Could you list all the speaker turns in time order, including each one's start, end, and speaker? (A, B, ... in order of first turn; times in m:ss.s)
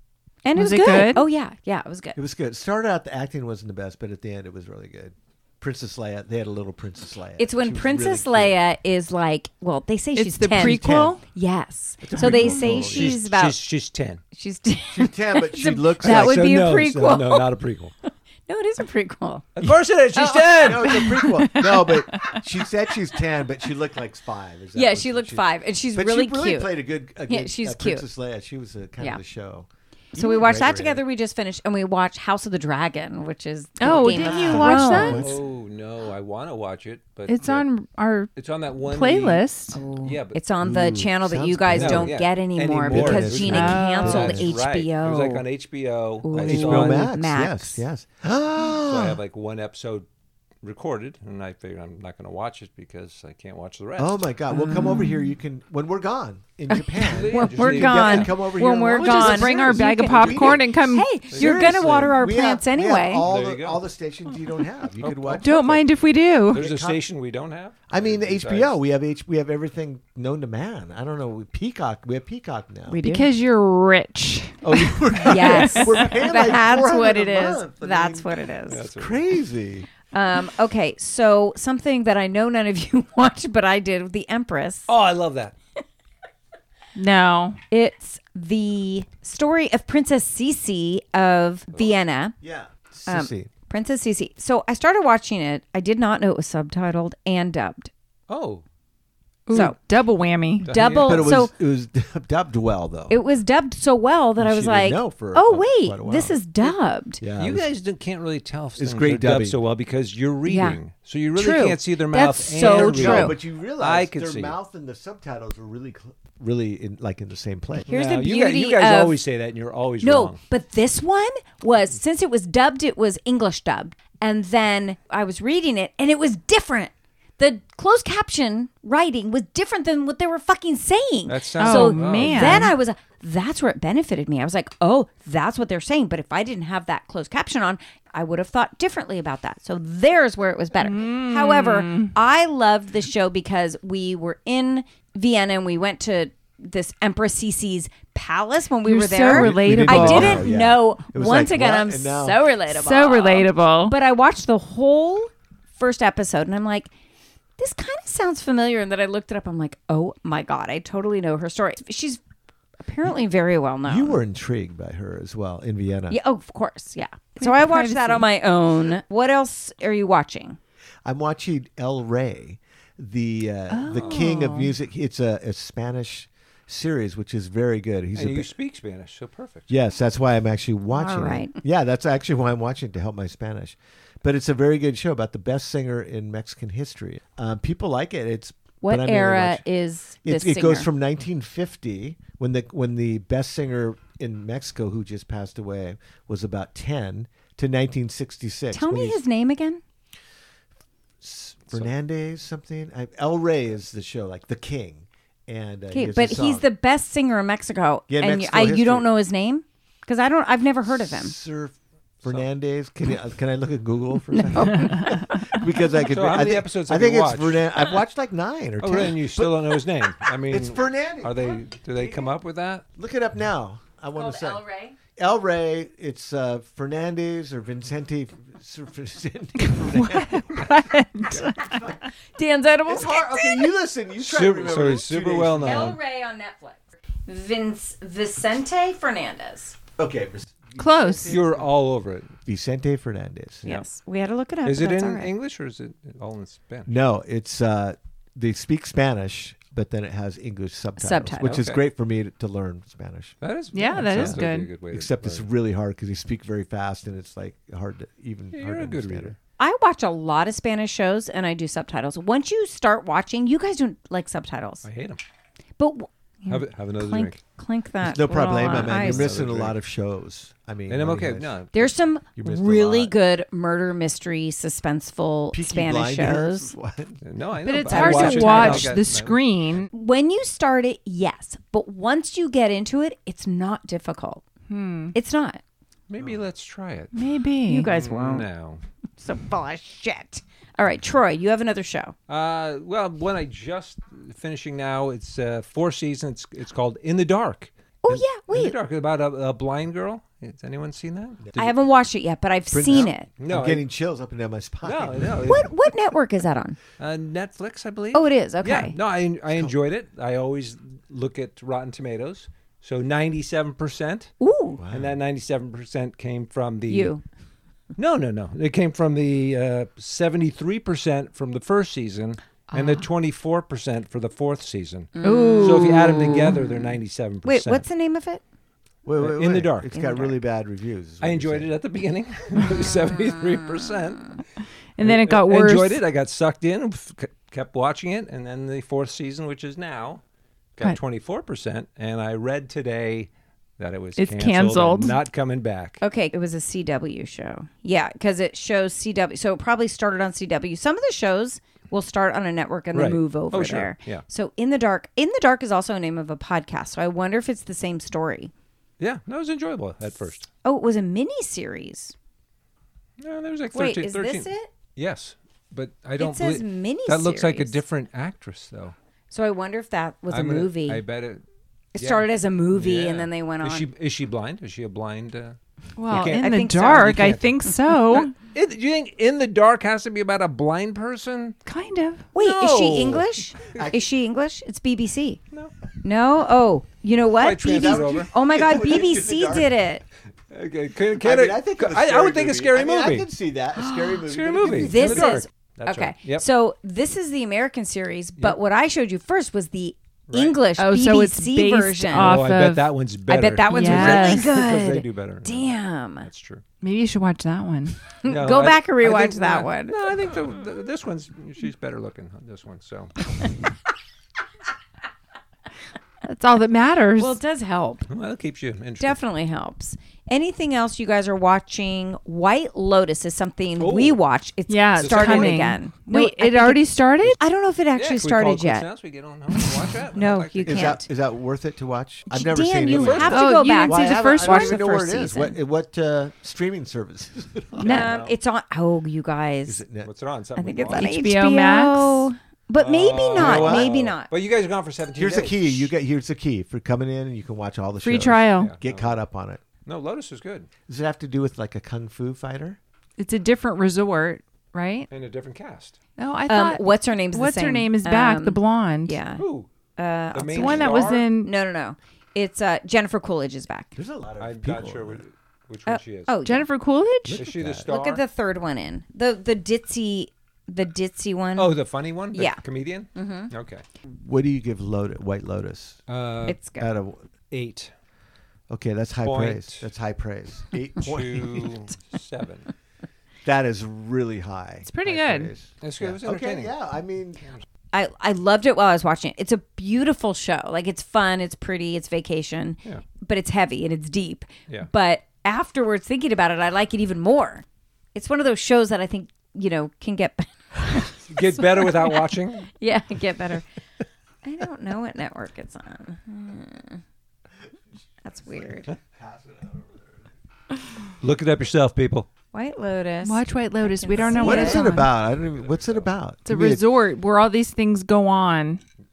0:00.4-0:02.2 A
0:00.6-0:01.3 B
0:02.2-0:08.6 C
0:07.4-0:13.6 A
0:10.2-0:11.2 B
0:10.5-0:11.2 C
0:12.0-0:13.2 C
0:12.3-0:14.2 D
0:14.3-0:17.4 A
0:14.9-0:16.6 C
0:16.0-0:18.0 D
0:18.5-0:19.6 A
0:19.6-0:21.0 D
0:20.2-0:20.6 A
0:20.5-0:31.0 C
0:20.8-0:22.4 B
0:24.8-0:28.0 A
0:30.2-0:35.2 A
0:33.8-0:35.3 B
0:33.9-0:35.4 C
0:35.0-0:37.7 D
0:37.3-0:38.3 B
0:38.4-0:39.4 D
0:38.8-0:39.8 B
0:39.7-0:45.4 A
0:40.0-0:40.4 D
0:40.6-0:42.2 C
0:41.8-0:47.1 D
0:42.9-0:44.6 C
0:43.5-0:44.1 B
0:46.2-0:47.8 A
0:46.3-0:49.2 C
0:48.8-0:50.1 D
0:50.6-0:54.2 D
0:54.0-1:00.7 C
0:54.5-0:55.1 A
0:57.1-0:58.3 D
0:57.3-1:03.3 A
0:59.0-1:01.1 B
1:01.3-1:05.8 C
1:01.3-1:02.0 D
1:03.2-1:03.8 D
1:05.0-1:05.7 D
1:05.4-1:06.7 B
1:06.5-1:08.8 D
1:06.5-1:07.0 C
1:07.9-1:13.0 C
1:12.9-1:13.3 A
1:12.9-1:16.2 B
1:14.6-1:18.3 C
1:15.3-1:18.9 A
1:18.7-1:19.2 D
1:19.0-1:19.9 C
1:20.1-1:24.9 A
1:24.9-1:25.5 D
1:27.0-1:27.6 B
1:27.7-1:32.4 A
1:32.4-1:33.5 C
1:33.1-1:37.9 A
1:38.3-1:38.6 D
1:39.5-1:40.7 B
1:39.5-1:39.8 A
1:40.6-1:41.4 D
1:40.7-1:41.5 A
1:41.0-1:43.2 C
1:43.1-1:47.2 A
1:44.4-1:46.4 C
1:47.2-1:47.7 C
1:47.4-1:54.6 D
1:48.8-1:49.6 C
1:50.5-1:50.8 A
1:51.4-1:53.4 A
1:52.6-1:57.9 C
1:57.9-2:00.4 D
1:57.9-1:59.2 A
2:00.0-2:36.9 A
2:11.3-2:12.8 D
2:11.6-2:12.8 B
2:20.8-2:22.1 B
2:28.8-2:30.4 B
2:29.3-2:32.4 C
2:32.7-2:34.0 B
2:37.6-2:42.2 A
2:42.8-2:44.2 A
2:43.9-2:46.2 C
2:46.1-2:50.6 A
2:47.4-2:48.3 B
2:51.0-2:58.5 C
2:53.7-2:54.7 B
2:53.9-2:54.2 D
2:58.2-2:59.7 D
2:59.7-3:09.6 C
3:00.9-3:01.6 A
3:08.8-3:10.9 A
3:10.2-3:19.2 C
3:18.7-3:19.8 A
3:21.2-3:26.6 C
3:25.9-3:31.4 A
3:28.1-3:29.1 C
3:30.9-3:42.3 C
3:34.3-3:35.3 A
3:36.1-3:37.7 D
3:38.8-3:42.8 D
3:43.0-3:44.6 C
3:44.2-3:45.0 A
3:45.2-3:52.0 C
3:49.8-3:51.9 B
3:52.4-3:53.7 A
3:52.9-3:56.0 C
3:54.2-3:56.0 D
3:55.6-3:59.8 A
4:00.0-4:01.7 C
4:00.8-4:01.4 B
4:01.3-4:02.3 D
4:02.4-4:03.7 C
4:03.6-4:05.3 A
4:04.6-4:06.9 D
4:06.9-4:13.4 C
4:11.0-4:11.6 A
4:11.4-4:11.8 D
4:13.4-4:15.5 D
4:13.7-4:14.7 B
4:13.9-4:19.4 C
4:18.5-4:19.4 D
4:19.6-4:24.8 A
4:24.8-4:25.2 D
4:25.8-4:29.3 A
4:26.5-4:27.4 D
4:28.0-4:33.2 C
4:28.6-4:29.8 D
4:30.9-4:31.8 D
4:31.7-4:36.7 A
4:35.5-4:37.2 C
4:37.2-4:39.9 D
4:37.6-4:39.9 B
4:37.9-4:38.9 A
4:39.9-4:44.4 A
4:44.7-4:45.2 B
4:45.1-4:45.6 A
4:46.1-4:47.3 D
4:47.1-4:47.9 B
4:47.7-4:48.5 A
4:47.8-4:48.8 D
4:49.2-4:52.1 A
4:52.3-5:01.5 D
4:58.0-4:58.8 A
5:01.4-5:01.7 C
5:01.6-5:03.3 A
5:02.7-5:05.6 C
5:02.9-5:03.8 D
5:04.8-5:05.7 D
5:05.4-5:06.8 A
5:07.0-5:14.3 D
5:08.1-5:09.0 A
5:14.4-5:14.8 A
5:14.8-5:15.2 C
5:14.9-5:17.2 D
5:16.9-5:17.2 A
5:18.0-5:27.8 D
5:22.8-5:23.0 A
5:25.2-5:26.2 A
5:25.2-5:26.6 B
5:27.4-5:28.4 A
5:29.0-5:31.7 C
5:29.2-5:29.9 D
5:29.9-5:30.4 A
5:31.2-5:34.4 D
5:35.0-5:36.0 B
5:35.0-5:40.2 D
5:40.8-5:46.0 D
5:44.2-5:45.2 B
5:46.0-5:58.5 A
5:52.9-5:54.2 D
5:59.0-6:00.5 D
6:00.6-6:02.1 A
6:03.2-6:09.0 D
6:03.7-6:04.7 A
6:06.2-6:07.8 A
6:09.3-6:11.0 A
6:10.3-6:11.4 D
6:12.0-6:13.9 A
6:12.0-6:15.6 D
6:16.0-6:18.3 B
6:16.1-6:21.6 D
6:16.3-6:17.1 A
6:21.7-6:22.2 B
6:22.3-6:25.4 A
6:22.4-6:23.8 D
6:23.7-6:24.1 C
6:26.0-6:30.0 A
6:27.4-6:28.3 D
6:27.6-6:29.7 C
6:30.5-6:33.3 D
6:31.2-6:35.4 C
6:33.8-6:42.4 A
6:34.3-6:36.4 D
6:40.3-6:40.6 D
6:40.8-6:42.9 B
6:42.1-6:46.6 D
6:43.3-6:46.3 A
6:43.7-6:44.5 B
6:46.8-6:48.0 B
6:48.2-6:50.0 A
6:48.2-6:53.2 D
6:56.2-6:57.4 B
6:57.2-6:58.1 A
6:58.1-6:59.2 D
6:59.0-7:08.9 A
7:03.8-7:04.2 D
7:04.7-7:07.4 B
7:05.0-7:05.7 D
7:08.0-7:11.0 D
7:10.1-7:11.1 A
7:10.6-7:18.1 C
7:12.3-7:15.6 A
7:12.9-7:13.4 D
7:13.3-7:14.8 B
7:17.8-7:19.8 A
7:17.8-7:18.4 D
7:19.7-7:20.1 C
7:20.0-7:21.2 D
7:20.6-7:24.3 A
7:20.9-7:22.3 B
7:22.8-7:25.9 D
7:23.3-7:23.9 C
7:25.2-7:29.6 C
7:28.0-7:28.7 B
7:28.6-7:29.2 D
7:29.9-7:30.7 D
7:30.9-7:32.8 C
7:33.2-7:35.1 B
7:35.1-7:36.0 D
7:36.2-7:39.2 B
7:36.5-7:39.4 A
7:39.4-7:39.7 D
7:40.0-7:44.0 A
7:40.3-7:41.3 D
7:40.6-7:41.5 B
7:44.0-7:45.2 C
7:44.4-7:46.4 D
7:45.9-7:46.7 A
7:46.4-7:47.4 B
7:47.3-7:47.9 C
7:47.3-7:48.2 D
7:47.8-7:51.8 A
7:51.6-7:53.8 D
7:52.3-7:52.6 A
7:53.2-7:53.5 A
7:54.1-7:56.0 C
7:56.1-7:56.6 D
7:56.5-7:56.9 A
7:56.8-7:57.2 C
7:57.5-7:57.9 D
7:58.7-8:01.7 C
7:59.2-7:59.9 D
8:01.0-8:02.7 D
8:03.4-8:07.4 C
8:04.8-8:05.5 B
8:05.8-8:06.7 D
8:07.9-8:23.6 A
8:21.3-8:22.7 D
8:24.4-8:27.0 A
8:28.2-8:28.9 A
8:28.9-8:30.1 C
8:31.2-8:32.3 D
8:32.5-8:34.9 A
8:33.2-8:35.1 B
8:34.2-8:36.9 C
8:35.6-8:36.0 D
8:36.5-8:38.8 B